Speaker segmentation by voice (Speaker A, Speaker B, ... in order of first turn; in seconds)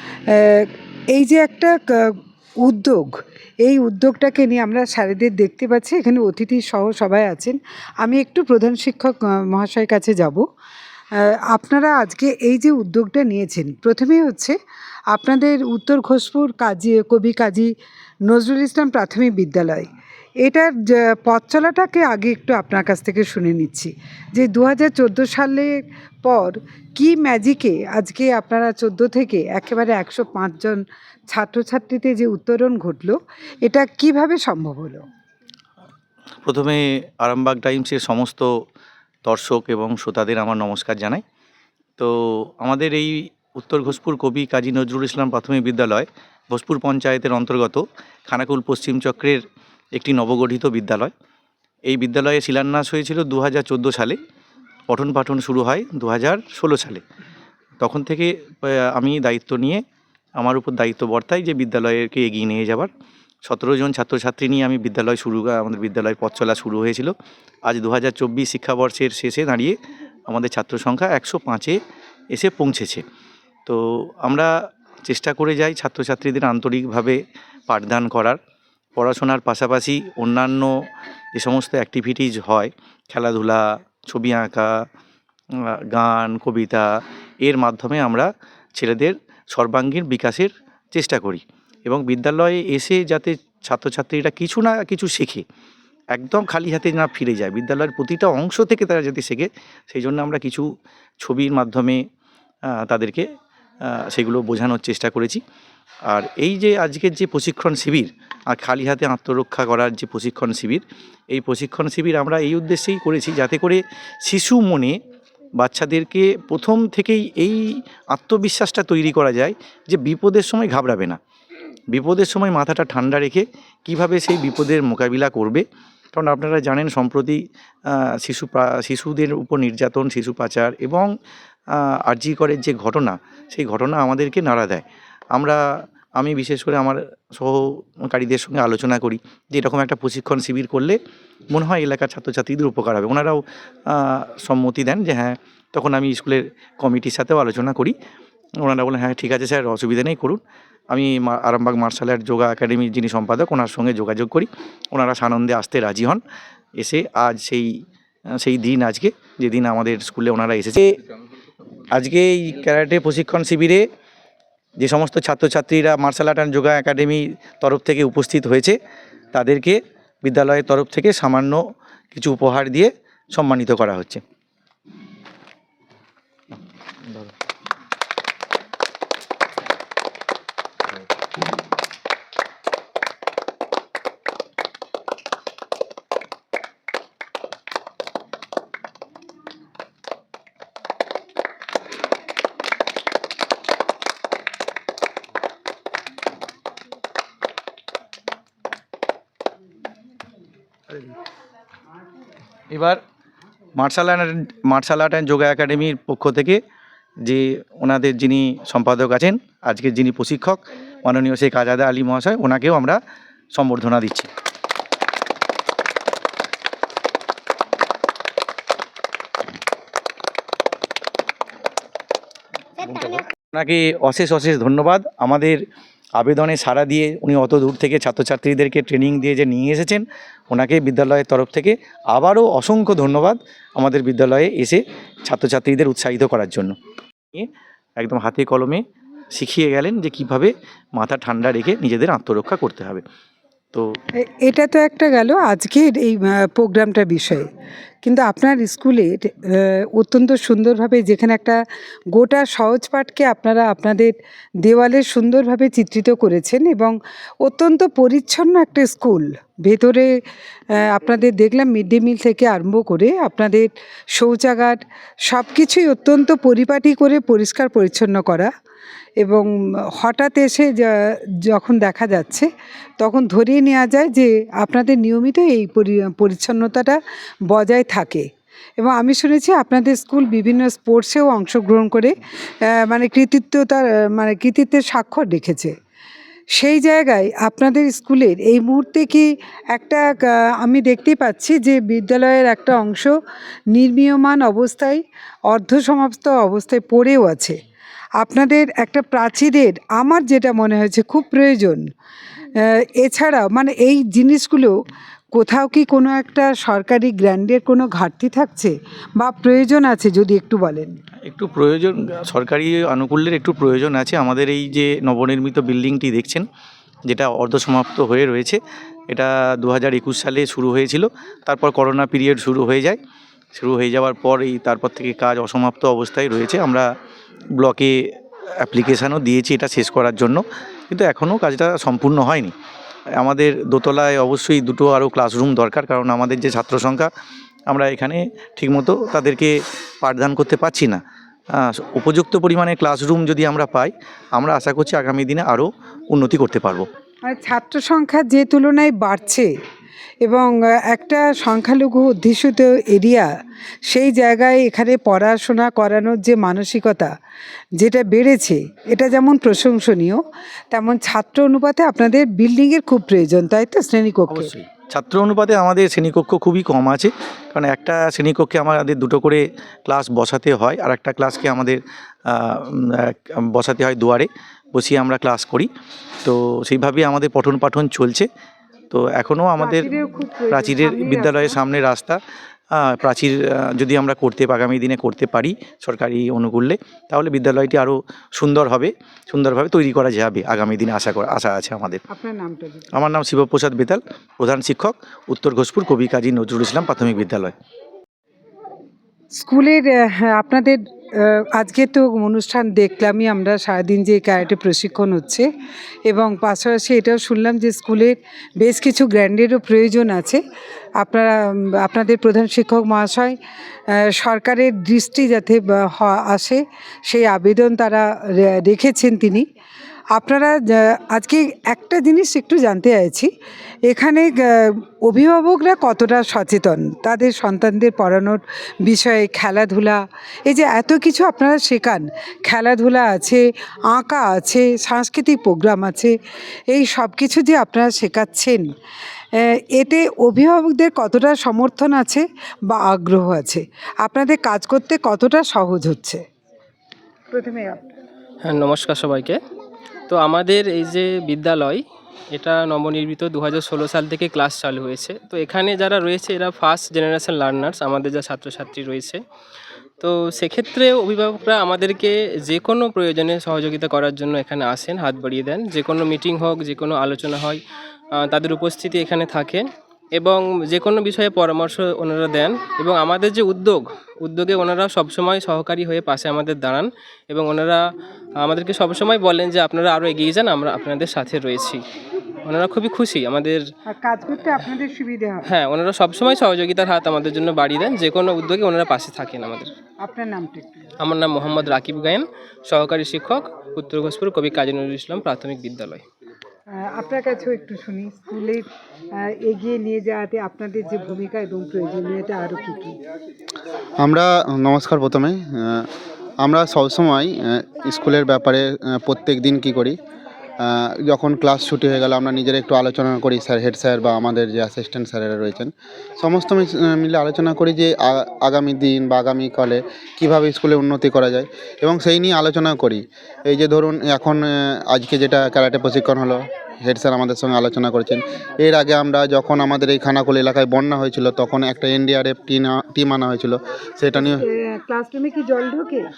Speaker A: 0.3-10.4, 11.5-14.6, 15.1-17.7, 18.3-19.9, 20.4-25.7, 26.2-35.0, 244.2-247.5, 248.0-251.6, 252.1-260.1, 260.7-268.5, 269.2-272.5, 273.0-277.0, 277.5-278.3, 278.8-282.1, 282.7-285.7, 286.6-293.1, 293.7-297.6, 298.2-301.8, 302.7-304.8, 305.3-310.9, 347.2-349.5, 350.2-353.3, 353.9-357.1, 357.8-364.5, 379.6-381.6, 392.1-392.9, 399.4-405.5, 406.1-410.4, 411.0-413.4, 414.1-419.4, 420.1-423.3, 423.9-436.1, 436.7-438.7, 439.4-446.2, 447.3-447.9, 483.9-485.5, 490.0-490.9, 496.7-498.7, 499.2-502.9, 534.2-536.1
Speaker B: 36.4-38.5, 39.2-41.2, 42.0-49.4, 49.9-51.1, 51.9-54.2, 54.9-57.0, 57.8-59.8, 60.4-62.9, 63.5-67.1, 67.7-69.8, 70.3-71.8, 72.3-73.0, 73.7-74.5, 75.0-78.4, 79.0-80.7, 81.3-84.7, 85.9-86.9, 87.4-95.4, 96.1-100.7, 101.2-102.0, 102.8-103.3, 103.9-105.4, 106.1-115.0, 115.6-121.2, 121.9-125.6, 126.1-131.1, 131.7-135.6, 136.2-141.0, 141.5-147.9, 148.6-150.4, 150.9-156.2, 156.8-157.7, 158.4-160.9, 161.9-163.8, 164.8-168.8, 169.3-171.6, 172.1-174.2, 202.7-203.0, 203.8-206.6, 207.2-213.0, 213.5-214.3, 222.8-225.6, 226.2-236.7, 237.3-238.8, 239.3-243.0, 311.2-316.4, 317.1-318.6, 319.1-323.0, 323.5-326.9, 327.6-328.0, 328.6-332.5, 333.2-337.1, 337.7-341.0, 341.5-346.9, 364.3-375.7, 376.2-378.3, 378.9-379.9, 380.5-382.2, 382.7-392.0, 392.9-397.5
Speaker C: 448.4-449.4, 450.1-459.2, 460.0-467.6, 468.1-477.8, 478.4-481.8, 482.4-483.6, 485.4-489.7, 491.0-496.0
Speaker D: 504.0-505.9, 506.4-510.0, 510.6-534.4